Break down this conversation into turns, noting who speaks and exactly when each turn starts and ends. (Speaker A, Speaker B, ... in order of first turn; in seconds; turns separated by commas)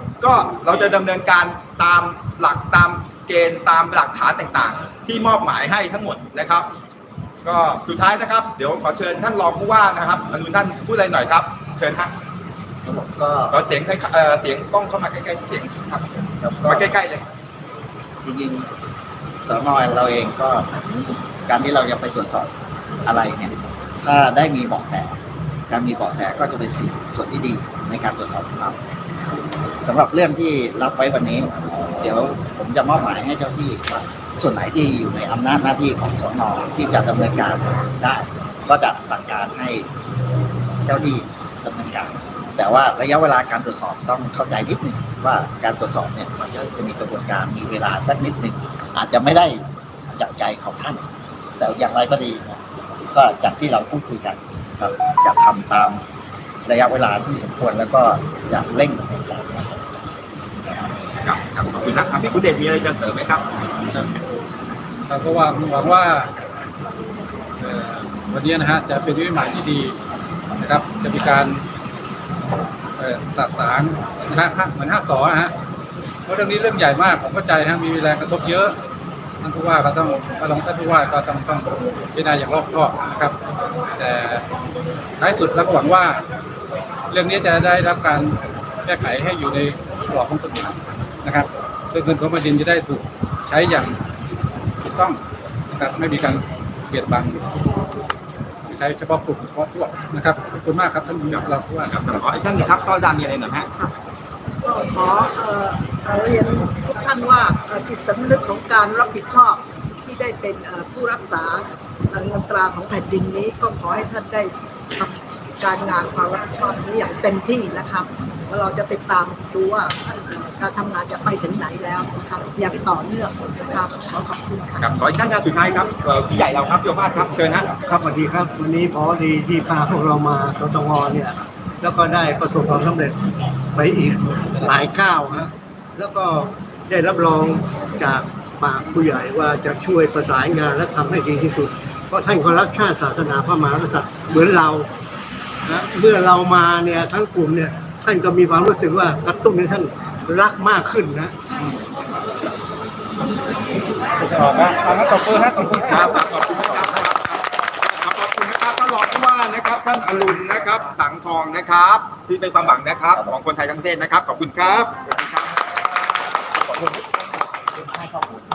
Speaker A: 0.2-6.7, Speaker A: 7.5-12.1, Speaker B: 12.8-13.6, Speaker A: 13.5-17.3, Speaker B: 16.4-16.9, Speaker B: 18.2-18.7, Speaker B: 19.4-22.5, Speaker B: 23.1-25.1, Speaker B: 25.7-28.8, Speaker B: 29.8-39.9, Speaker B: 40.9-51.0, Speaker B: 51.6-56.0, Speaker B: 56.6-59.8, Speaker A: 61.2-63.5, Speaker C: 65.1-66.3, Speaker C: 67.6-70.0, Speaker C: 70.6-71.6, Speaker C: 73.0-75.5, Speaker C: 76.3-78.8, Speaker C: 79.4-83.4, Speaker C: 84.0-84.4, Speaker C: 85.2-86.2, Speaker C: 87.1-94.0, Speaker C: 94.8-97.4, Speaker C: 98.7-102.0, Speaker A: 101.3-103.7, Speaker D: 104.6-124.8, Speaker A: 124.8-127.7, Speaker E: 127.9-133.2, Speaker E: 133.8-144.9, Speaker E: 145.7-151.3, Speaker C: 154.1-156.1, Speaker A: 155.8-165.8, Speaker A: 166.6-167.0